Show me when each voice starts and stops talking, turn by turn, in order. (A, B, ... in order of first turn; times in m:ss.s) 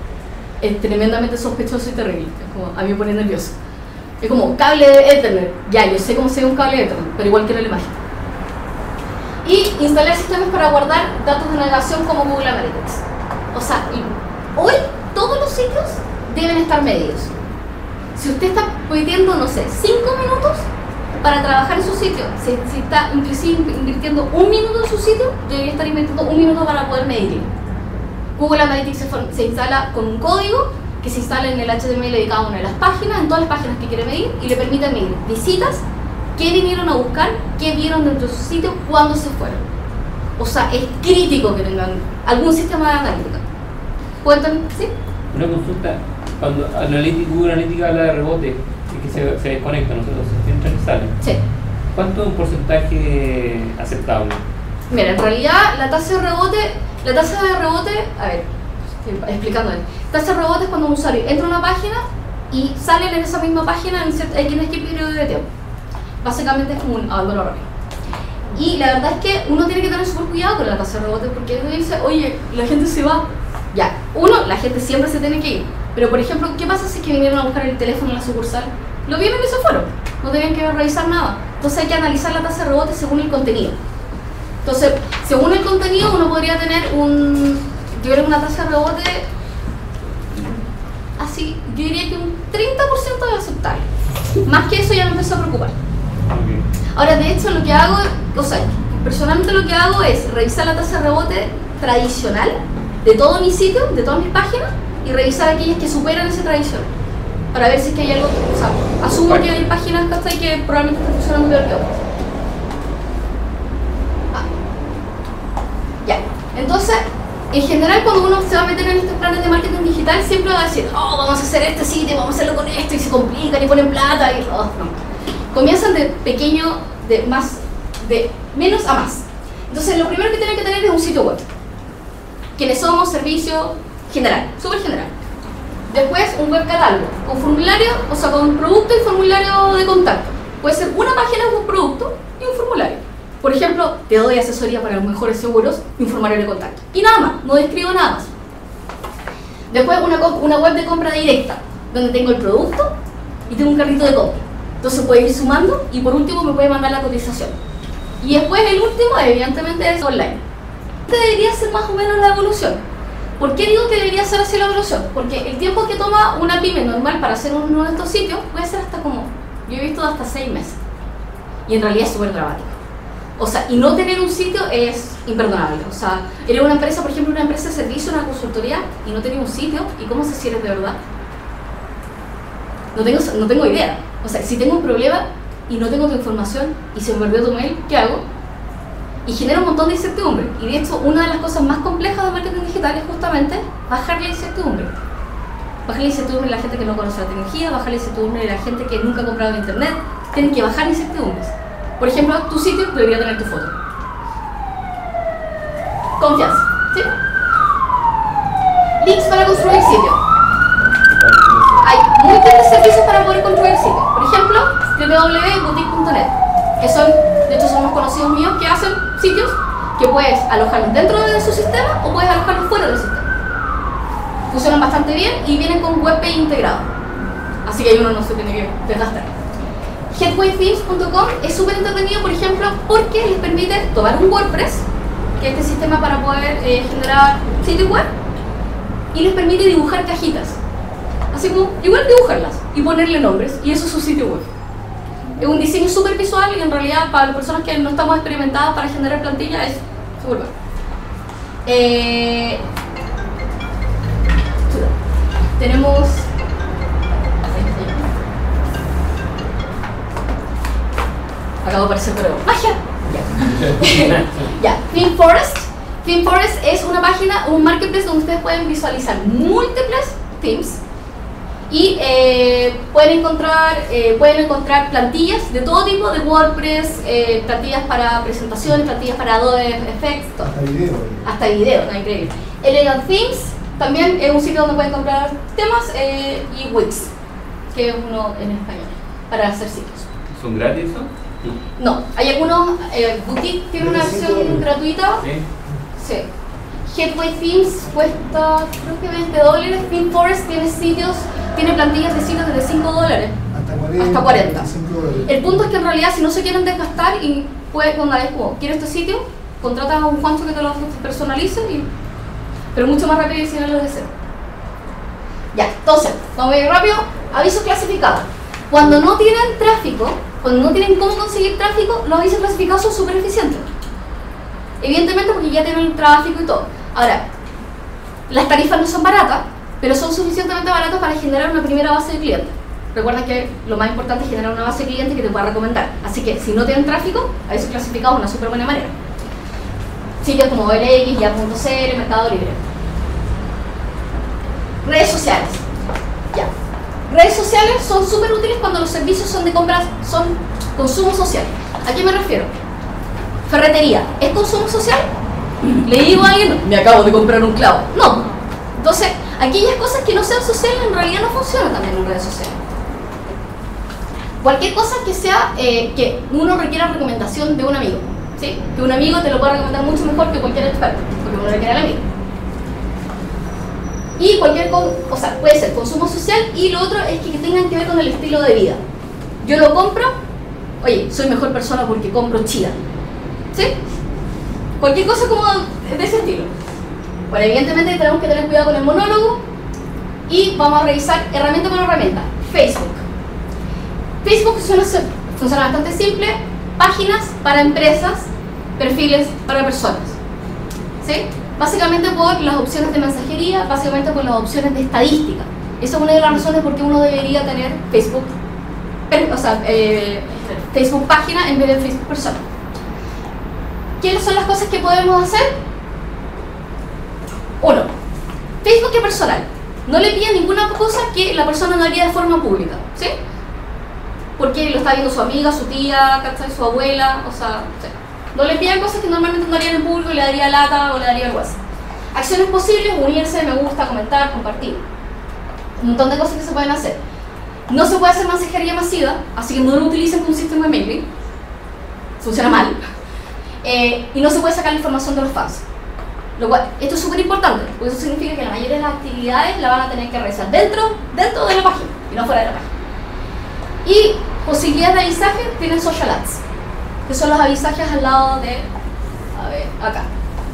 0:00.6-0:03.5 A
0:04.2-0:07.9 A
0:09.4-0:17.3 A
0:18.2-0:20.7 A
0:21.2-0:27.5 A
0:28.4-0:35.8 A
0:36.4-0:39.6 A
0:40.4-0:43.4 A
0:44.2-0:44.9 A
0:45.3-0:51.2 B
0:51.9-0:54.4 B
0:54.9-0:58.4 A
0:59.0-1:05.5 A
1:06.2-1:07.7 A
1:08.5-1:23.8 A
1:24.6-1:29.3 A
1:31.2-1:33.9 A
1:34.4-1:35.7 A
1:36.3-1:36.6 B
1:37.0-1:46.9 A
1:47.5-1:52.0 A
1:49.1-1:49.6 B
1:56.0-2:04.9 A
2:05.5-2:11.4 A
2:12.6-2:15.1 A
2:15.9-2:28.3 A
2:29.7-2:32.9 A
2:33.5-2:37.6 A
2:38.2-2:40.4 A
2:41.1-2:42.8 A
2:43.4-2:50.8 A
2:51.7-2:52.8 A
2:53.4-3:01.0 A
3:02.9-3:08.2 A
3:09.3-3:14.9 A
3:15.9-3:23.7 A
3:26.2-3:27.1 A
3:29.0-3:30.2 A
3:31.1-3:31.8 B
3:31.8-3:43.3 A
3:44.5-3:46.9 A
3:47.6-3:49.3 A
3:50.1-3:54.9 A
3:55.4-3:58.1 A
3:59.1-4:00.6 A
4:01.3-4:04.5 A
4:05.4-4:10.5 A
4:11.7-4:12.6 A
4:15.6-4:16.3 A
4:17.4-4:18.1 A
4:21.6-4:30.8 A
4:31.7-4:40.5 A
4:40.4-4:41.3 C
4:41.2-4:47.1 A
4:47.7-4:50.1 A
4:50.3-4:51.6 B
4:51.8-4:55.2 A
4:53.8-4:54.7 C
4:56.0-4:56.3 A
4:56.9-5:03.4 A
5:03.5-5:05.3 C
5:04.0-5:04.7 A
5:05.2-5:11.9 A
5:12.7-5:14.1 A
5:15.5-5:23.7 A
5:24.8-5:27.2 A
5:28.3-5:38.9 A
5:40.2-5:42.6 A
5:44.8-5:45.6 A
5:47.1-5:52.5 A
5:53.5-5:55.1 A
5:55.6-5:58.2 A
5:58.8-6:02.6 A
6:04.4-6:12.0 A
6:14.2-6:18.8 A
6:19.4-6:20.1 A
6:20.8-6:22.8 A
6:24.8-6:26.5 A
6:27.3-6:29.4 A
6:30.3-6:33.0 A
6:34.2-6:40.2 A
6:41.0-6:48.3 A
6:49.1-6:52.4 A
6:54.0-6:55.6 A
6:57.6-6:57.9 A
6:58.6-7:03.1 A
7:04.4-7:11.6 A
7:12.1-7:14.8 A
7:15.8-7:17.0 A
7:17.7-7:21.1 A
7:22.2-7:22.8 A
7:23.6-7:25.6 A
7:26.4-7:32.7 A
7:33.8-7:36.4 A
7:37.1-7:38.7 A
7:39.3-7:40.1 A